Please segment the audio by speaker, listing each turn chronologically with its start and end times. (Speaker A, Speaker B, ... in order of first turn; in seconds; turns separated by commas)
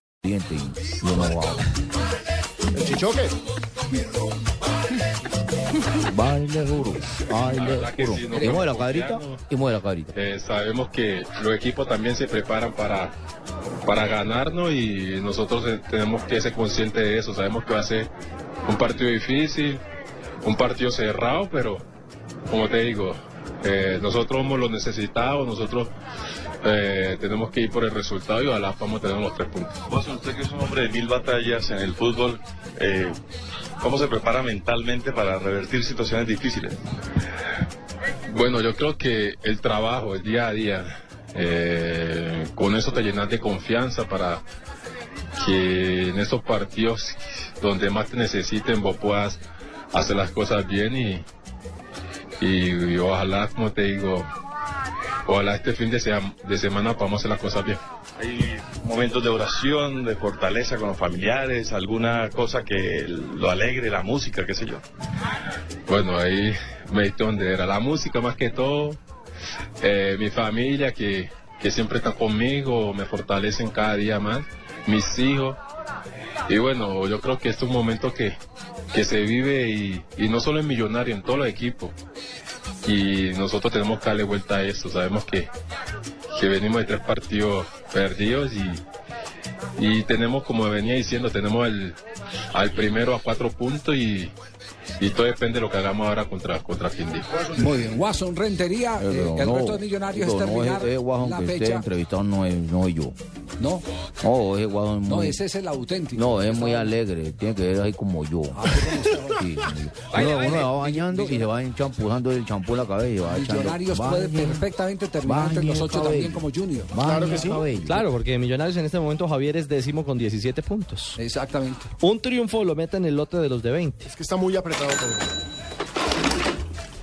Speaker A: 0.2-1.6, Speaker B: 2.7-3.3, Speaker A: 6.0-10.1, Speaker C: 7.5-9.4, Speaker C: 10.1-13.1, Speaker C: 13.8-18.1, Speaker C: 18.6-19.8, Speaker C: 20.4-21.8, Speaker C: 22.5-25.9, Speaker C: 26.6-29.7, Speaker D: 29.9-33.2, Speaker D: 33.8-36.8, Speaker C: 38.3-44.4, Speaker C: 45.4-49.4, Speaker C: 49.9-51.2, Speaker C: 52.4-54.3, Speaker C: 55.2-57.8, Speaker D: 58.2-64.8, Speaker C: 65.9-69.0, Speaker C: 69.8-75.6, Speaker C: 76.5-78.4, Speaker C: 78.9-81.9, Speaker C: 82.8-85.5, Speaker C: 86.3-88.8, Speaker C: 89.8-92.0, Speaker C: 92.5-94.3, Speaker C: 95.0-97.3, Speaker E: 97.5-101.9, Speaker A: 99.0-103.2, Speaker E: 103.6-103.8, Speaker A: 104.2-105.4, Speaker E: 105.0-107.0, Speaker A: 106.1-114.7, Speaker E: 108.5-109.4, Speaker F: 110.1-111.4, Speaker E: 113.3-117.0, Speaker A: 115.2-118.0, Speaker B: 117.0-117.6, Speaker F: 117.3-121.2, Speaker E: 121.2-121.9, Speaker F: 122.0-124.1, Speaker B: 124.1-125.3